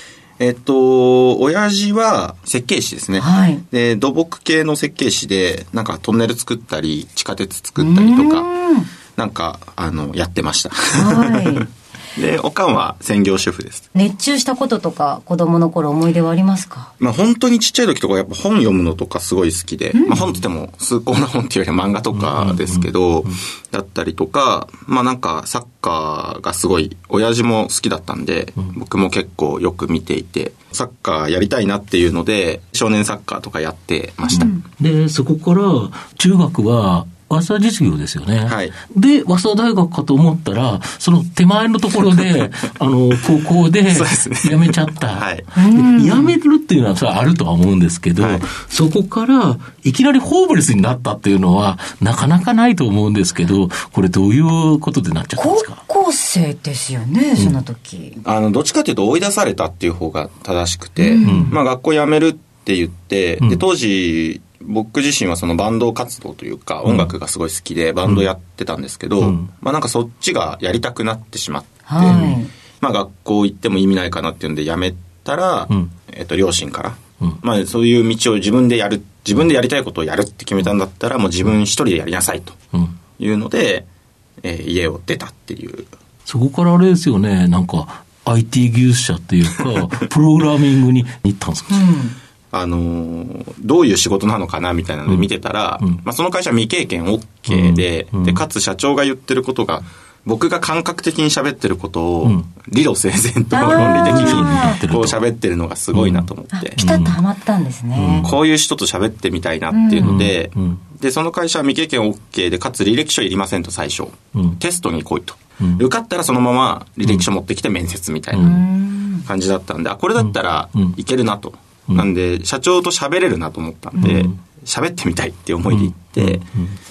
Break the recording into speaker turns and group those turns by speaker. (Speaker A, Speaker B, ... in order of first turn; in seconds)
Speaker A: 0.4-8.5, 9.1-11.6, 12.2-13.9, 17.0-34.6, 38.5-38.8, 42.0-42.4, 43.9-45.5, 48.2-48.5, 58.2-82.6, 83.2-83.9, 84.4-85.9, 92.5-106.8, 108.2-118.6, 119.2-126.5
Speaker B: 3.2-3.6, 7.8-8.9, 10.9-11.7, 13.9-16.9, 34.3-34.6, 45.5-46.3, 55.4-58.2, 61.0-61.5, 71.9-72.5, 91.7-92.1, 103.5-104.8, 106.5-108.3, 109.7-110.2, 118.4-119.2
Speaker C: 20.1-20.4, 22.1-22.9, 34.8-55.8, 61.2-61.6, 66.8-67.1, 69.2-69.5, 72.0-72.3, 86.2-91.9, 97.5-98.4, 103.6-105.2, 105.9-107.2, 107.9-108.3, 110.0-110.8, 118.3-118.6, 120.2-121.0, 124.0-124.3, 125.7-126.7